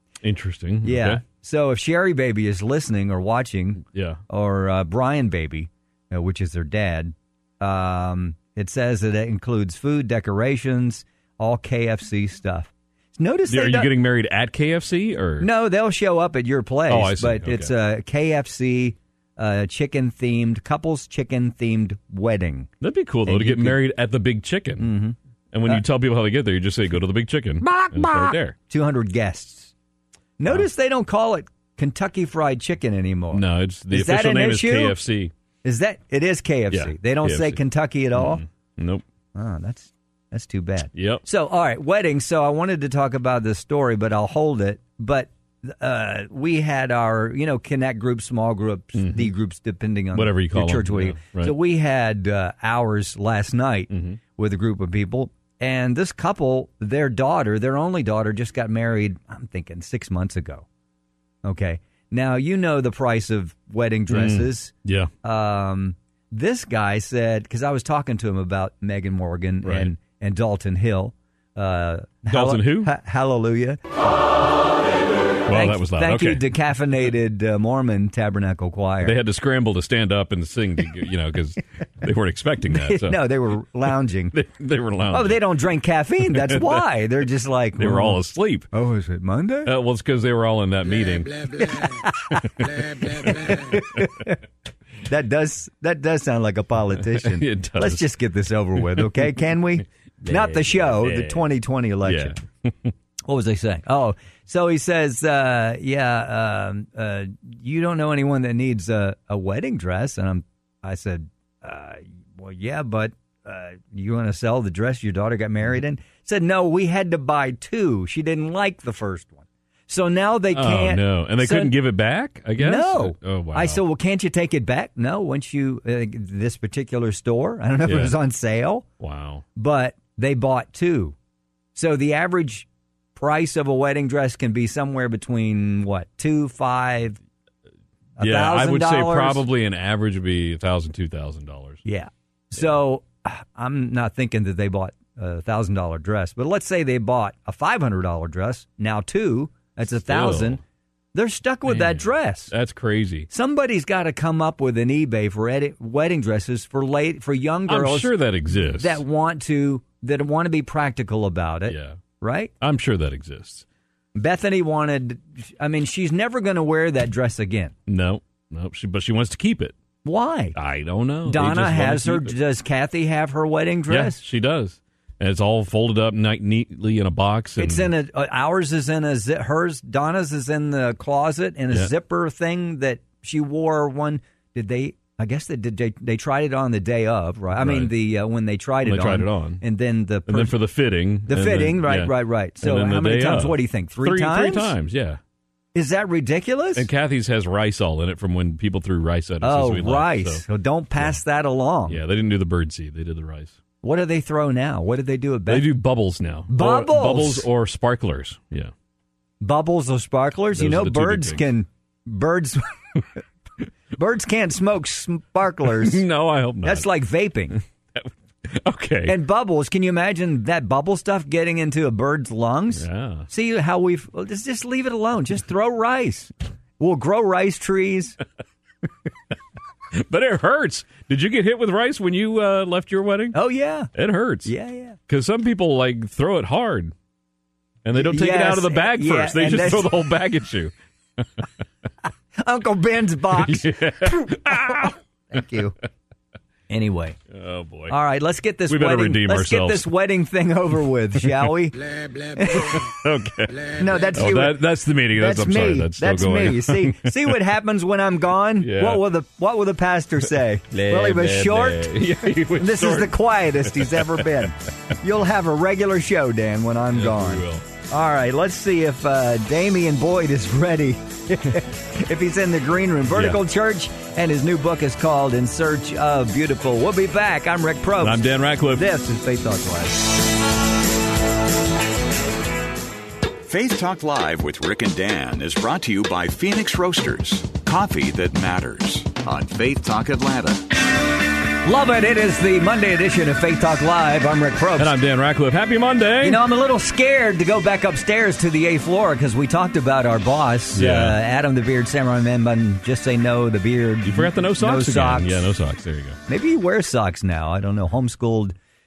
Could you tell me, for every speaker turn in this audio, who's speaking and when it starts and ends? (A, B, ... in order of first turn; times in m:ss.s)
0:00.2-0:01.2 A
0:00.8-0:13.9 B
0:03.9-0:04.2 A
0:13.5-0:15.5 A
0:15.4-0:22.7 B
0:16.9-0:17.7 A
0:22.8-0:24.9 A
0:23.2-0:23.8 B
0:24.8-0:25.8 B
0:25.5-0:28.5 A
0:27.6-0:29.7 B
0:30.4-0:35.0 B
0:33.3-0:35.3 A
0:35.6-0:38.4 B
0:36.7-0:37.6 A
0:38.1-0:39.0 A
0:39.3-1:00.6 B
0:40.9-0:41.2 A
0:49.0-0:49.3 A
0:50.1-0:51.5 A
0:53.9-0:54.2 A
1:01.4-1:04.7 B
1:04.1-1:05.1 A
1:05.2-1:14.0 B
1:09.6-1:09.9 A
1:12.3-1:12.9 A
1:15.5-1:16.4 A
1:15.5-1:19.2 B
1:19.0-1:23.3 A
1:22.7-1:24.3 B
1:24.3-1:25.4 A
1:25.1-1:28.2 B
1:26.3-1:27.0 A
1:27.8-1:28.7 A
1:28.7-1:29.7 B
1:29.6-1:31.6 A
1:31.6-1:34.4 B
1:32.6-1:34.2 A
1:35.0-1:42.4 B
1:37.0-1:38.1 A
1:38.8-1:39.3 A
1:40.2-1:41.5 A
1:42.0-1:42.9 A
1:43.3-1:59.4 B
1:59.9-2:01.7 B
2:00.5-2:03.8 A
2:02.6-2:08.8 B
2:07.8-2:08.2 A
2:09.0-2:09.4 A
2:09.6-2:11.1 B
2:11.7-2:17.2 B
2:18.2-2:19.4 B
2:18.2-2:21.8 A
2:21.8-2:30.6 B
2:30.0-2:30.6 A
2:31.1-2:32.5 B
2:31.6-2:33.3 A
2:33.3-2:38.1 B
2:37.7-2:39.0 A
2:38.6-2:42.5 B
2:41.7-2:42.0 A
2:42.6-2:43.6 A
2:44.1-2:47.7 B
2:47.9-2:49.7 A
2:50.0-2:50.6 B
2:50.5-2:52.3 A
2:51.2-2:54.2 B
2:53.9-2:57.9 A
2:57.6-3:10.6 B
3:07.6-3:07.9 A
3:08.8-3:09.6 A
3:10.3-3:15.2 A
3:11.3-3:14.7 B
3:15.7-3:16.9 B
3:16.8-3:20.4 A
3:19.4-3:22.0 B
3:21.9-3:23.6 A
3:23.8-3:25.7 B
3:25.5-3:28.7 A
3:26.5-3:27.5 B
3:29.4-3:32.7 B
3:30.5-3:31.5 A
3:34.0-3:36.0 B
3:35.8-3:36.9 A
3:36.6-3:37.6 B
3:38.0-3:39.2 A
3:39.0-3:48.2 B
3:42.8-3:43.3 A
3:49.9-3:53.4 A
3:53.3-3:53.9 B
3:53.9-3:54.5 A
3:54.4-3:55.0 B
3:55.1-3:56.9 A
3:57.8-4:01.4 A
3:57.9-3:59.9 B
4:02.4-4:05.8 B
4:03.3-4:05.0 A
4:06.7-4:07.2 B
4:07.3-4:08.0 A
4:07.9-4:12.8 B
4:08.7-4:09.9 A
4:11.2-4:11.5 A
4:12.5-4:17.4 A
4:13.7-4:40.1 B
4:18.6-4:19.1 A
4:20.7-4:24.4 A
4:26.9-4:27.6 A
4:33.1-4:33.4 A
4:38.0-4:38.9 A
4:43.4-4:50.6 C
4:51.6-4:54.9 B
4:54.8-4:56.4 A
4:56.2-5:05.5 B
5:00.7-5:01.2 A
5:04.0-5:06.2 A
5:06.3-5:08.6 B